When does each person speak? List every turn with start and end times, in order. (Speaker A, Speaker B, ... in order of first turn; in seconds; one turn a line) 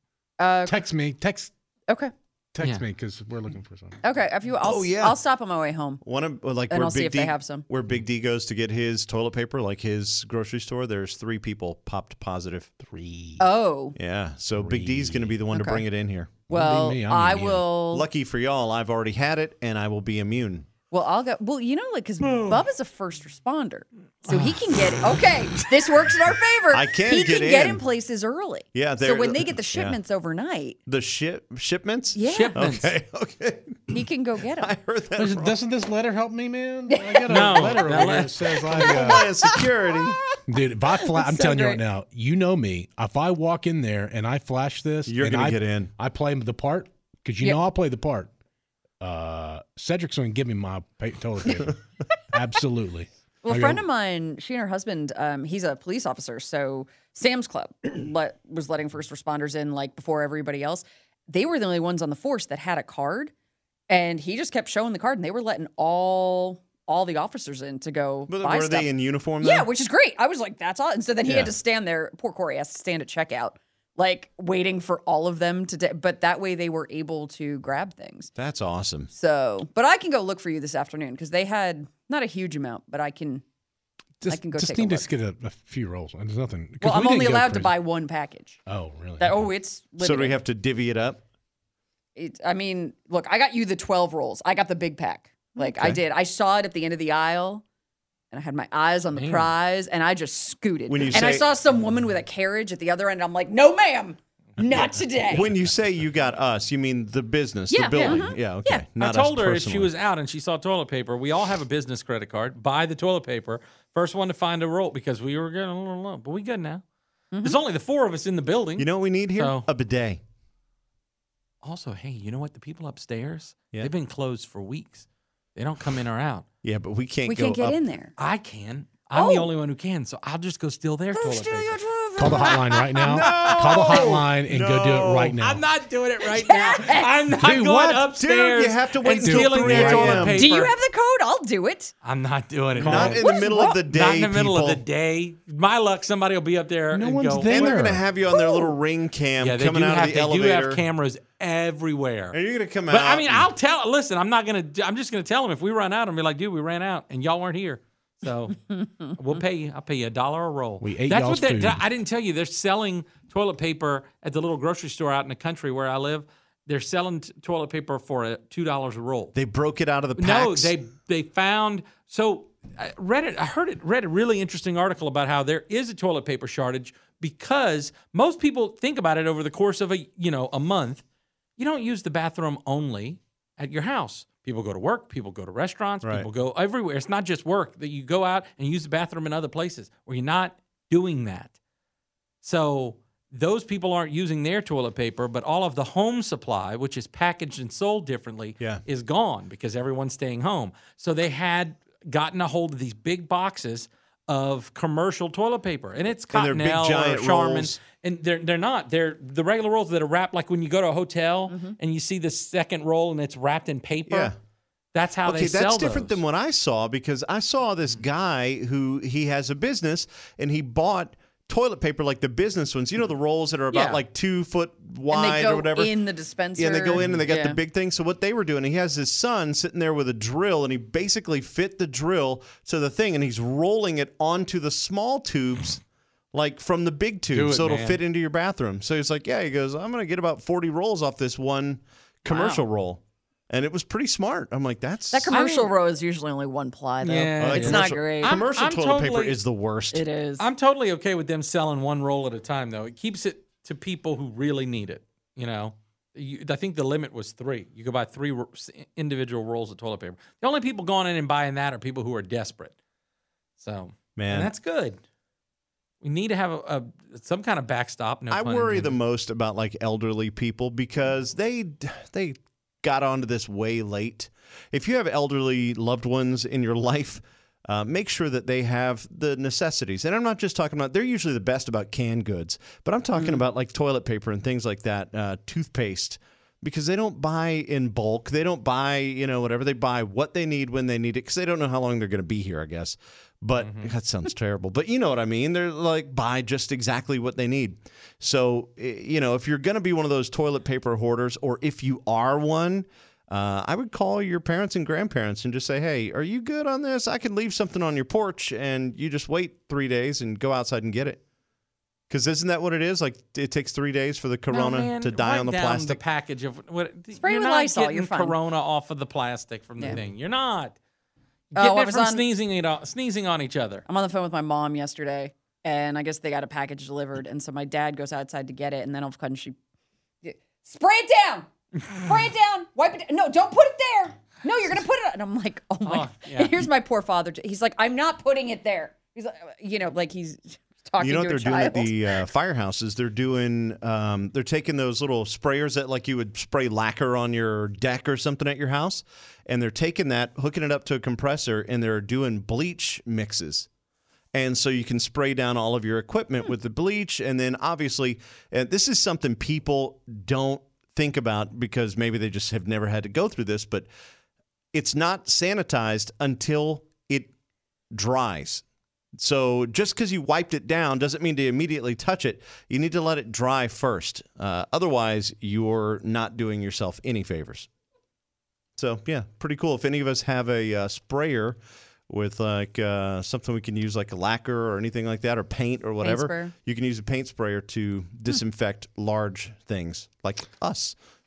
Speaker A: 0.4-0.8
Speaker B: 0.6-1.5
Speaker B: 2.5-4.0
Speaker A: 4.0-6.0
Speaker C: 4.6-5.2
Speaker C: 6.0-12.7
Speaker A: 6.7-7.6
Speaker B: 12.8-13.4
Speaker A: 13.4-13.9
Speaker C: 13.9-16.3
Speaker B: 14.6-15.3
Speaker A: 15.5-15.8
Speaker B: 16.5-17.6
Speaker A: 16.5-18.1
Speaker C: 17.9-20.7
Speaker A: 20.9-30.8
Speaker C: 26.7-27.8
Speaker C: 28.7-29.9
Speaker C: 30.9-33.9
Speaker A: 32.1-32.6
Speaker D: 32.2-32.9
Speaker A: 33.9-34.7
Speaker C: 34.6-35.5
Speaker B: 35.1-39.3
Speaker A: 36.9-38.1
Speaker D: 37.3-38.5
Speaker A: 38.6-39.6
Speaker C: 38.7-40.2
Speaker B: 40.5-48.3
Speaker A: 41.0-41.8
Speaker C: 45.1-45.9
Speaker B: 49.0-51.8
Speaker B: 52.3-53.8
Speaker A: 53.4-63.3
Speaker A: 63.9-68.9
Speaker C: 68.3-69.7
Speaker A: 69.4-78.3
Speaker C: 71.2-71.5
Speaker C: 78.4-79.1
Speaker A: 79.1-83.4
Speaker B: 84.2-87.7
Speaker A: 84.2-85.0
Speaker A: 86.8-88.6
Speaker B: 88.7-89.5
Speaker A: 89.2-90.4
Speaker C: 90.0-91.2
Speaker A: 92.2-97.6
Speaker C: 95.6-96.0
Speaker A: 98.3-105.5
Speaker D: 99.2-99.5
Speaker C: 100.9-101.4
Speaker C: 105.3-109.9
Speaker A: 107.7-108.8
Speaker D: 108.9-116.8
Speaker A: 117.3-117.6
Speaker D: 117.4-119.7
Speaker C: 118.8-120.2
Speaker D: 121.6-126.4
Speaker C: 126.6-127.8
Speaker A: 127.3-128.1
Speaker D: 128.2-131.8
Speaker A: 129.1-129.5
Speaker A: 131.1-132.9
Speaker B: 132.2-135.6
Speaker C: 133.1-135.4
Speaker D: 135.4-140.7
Speaker A: 136.2-137.1
Speaker B: 137.4-138.1
Speaker C: 138.1-140.4
Speaker B: 139.2-140.5
Speaker A: 140.4-141.9
Speaker D: 142.0-147.6
Speaker C: 142.8-144.8
Speaker B: 142.8-143.2
Speaker A: 143.2-143.8
Speaker B: 146.9-148.0
Speaker C: 147.5-150.8
Speaker A: 148.3-148.7
Speaker D: 149.4-152.4
Speaker C: 152.3-153.5
Speaker D: 152.9-158.6
Speaker D: 159.2-169.3
Speaker B: 160.8-161.8
Speaker C: 169.3-170.7
Speaker D: 170.2-181.0
Speaker D: 181.6-191.5
Speaker C: 186.0-186.3
Speaker D: 192.4-214.3
Speaker C: 206.3-207.8
Speaker A: 211.5-211.8
Speaker C: 214.1-214.3
Speaker D: 214.9-216.2
Speaker C: 215.2-225.9
Speaker D: 223.7-224.0
Speaker A: 225.1-227.6
Speaker C: 226.6-235.8
Speaker C: 236.3-245.3
Speaker D: 237.3-238.0
Speaker A: 242.2-242.6
Speaker A: 245.1-248.4
Speaker D: 245.3-245.7
Speaker D: 247.0-249.4
Speaker C: 247.4-250.0
Speaker A: 249.9-250.5
Speaker D: 250.4-262.7
Speaker D: 263.6-265.0
Speaker C: 264.2-264.5
Speaker D: 266.0-269.0
Speaker C: 268.3-311.2
Speaker D: 293.6-293.9
Speaker C: 312.1-316.0
Speaker D: 314.5-320.8
Speaker A: 317.2-318.4
Speaker D: 321.5-323.9
Speaker A: 321.6-322.3
Speaker A: 323.9-329.5
Speaker A: 330.2-342.2
Speaker D: 335.9-336.6
Speaker C: 341.0-353.7
Speaker C: 354.3-363.9
Speaker C: 364.7-367.3
Speaker C: 367.9-368.6
Speaker C: 369.1-377.7
Speaker C: 378.8-381.6
Speaker C: 382.1-390.9
Speaker A: 386.0-386.5